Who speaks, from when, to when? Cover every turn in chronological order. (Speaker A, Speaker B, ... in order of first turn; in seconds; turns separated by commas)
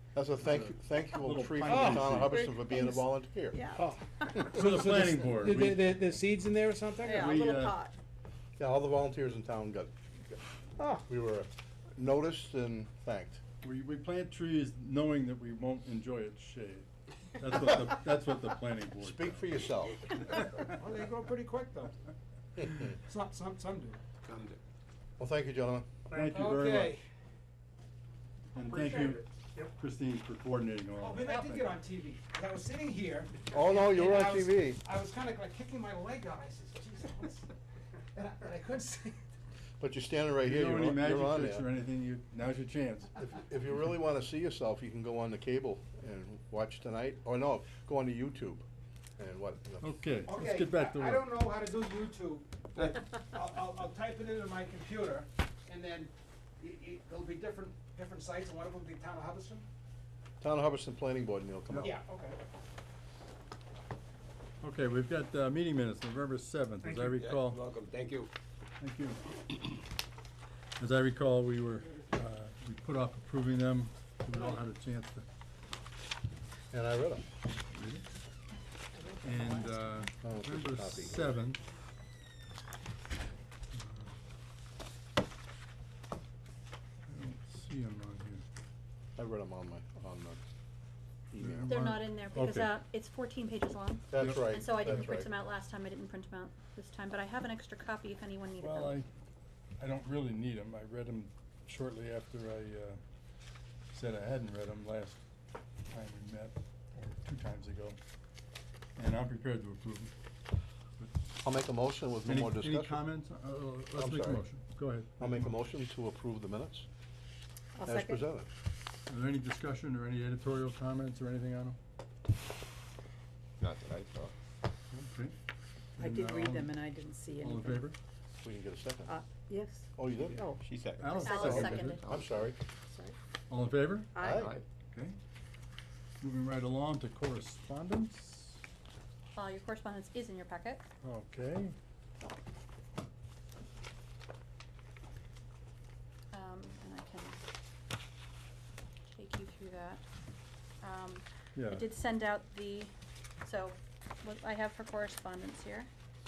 Speaker A: 0.1-3.6, Speaker B: 0.5-2.5, Speaker C: 1.6-2.2, Speaker D: 2.2-4.6, Speaker C: 3.7-7.4, Speaker B: 4.5-5.8, Speaker D: 7.0-7.9, Speaker B: 7.2-7.8, Speaker A: 8.6-9.9, Speaker C: 10.8-11.0, Speaker A: 11.1-13.4, Speaker B: 13.6-19.5, Speaker A: 19.0-20.1, Speaker C: 20.5-21.9, Speaker A: 22.6-22.9, Speaker C: 22.8-24.0, Speaker E: 24.2-24.6, Speaker A: 25.2-25.9, Speaker B: 26.1-27.0, Speaker C: 26.2-27.1, Speaker B: 28.5-31.6, Speaker C: 31.0-37.5, Speaker D: 31.3-31.6, Speaker A: 33.5-34.8, Speaker C: 38.1-39.2, Speaker A: 39.8-41.6, Speaker B: 40.4-43.2, Speaker A: 43.2-48.6, Speaker A: 49.2-49.9, Speaker B: 49.8-51.2, Speaker C: 50.2-59.7, Speaker A: 60.4-61.9, Speaker C: 61.8-62.4, Speaker B: 64.6-67.6, Speaker E: 66.8-68.3, Speaker B: 68.8-69.8, Speaker B: 70.8-75.2, Speaker A: 76.7-77.2, Speaker B: 77.7-78.0, Speaker D: 79.0-79.7, Speaker B: 79.2-81.6, Speaker A: 80.2-81.3, Speaker B: 83.7-84.1, Speaker B: 87.1-88.4, Speaker A: 89.2-90.4, Speaker A: 91.3-91.7, Speaker B: 91.4-92.7, Speaker F: 91.7-99.0, Speaker A: 94.1-95.3, Speaker B: 94.2-95.1, Speaker B: 98.6-99.1, Speaker B: 99.8-103.0, Speaker B: 103.9-105.2, Speaker B: 105.9-108.0, Speaker B: 109.0-110.1, Speaker A: 111.4-113.0, Speaker B: 112.2-115.5, Speaker A: 114.0-114.4, Speaker A: 115.2-116.9, Speaker D: 117.7-118.2, Speaker A: 117.8-118.5, Speaker B: 119.1-121.8, Speaker E: 123.6-124.3, Speaker B: 124.9-125.3, Speaker B: 126.0-126.8, Speaker D: 126.0-127.9, Speaker B: 127.4-128.0, Speaker A: 128.4-129.1, Speaker D: 129.1-130.6, Speaker A: 130.0-130.5, Speaker E: 130.2-132.5, Speaker B: 131.0-132.0, Speaker F: 131.2-132.1, Speaker A: 132.0-132.6, Speaker D: 132.8-133.2, Speaker B: 133.5-134.2, Speaker D: 134.2-134.6, Speaker A: 134.2-134.5, Speaker E: 134.2-134.7, Speaker B: 134.9-135.2, Speaker B: 136.2-138.6, Speaker F: 139.3-140.8, Speaker B: 141.0-141.7, Speaker F: 146.3-147.4, Speaker F: 149.2-150.0, Speaker F: 150.8-152.9, Speaker B: 151.6-151.8, Speaker F: 153.4-155.9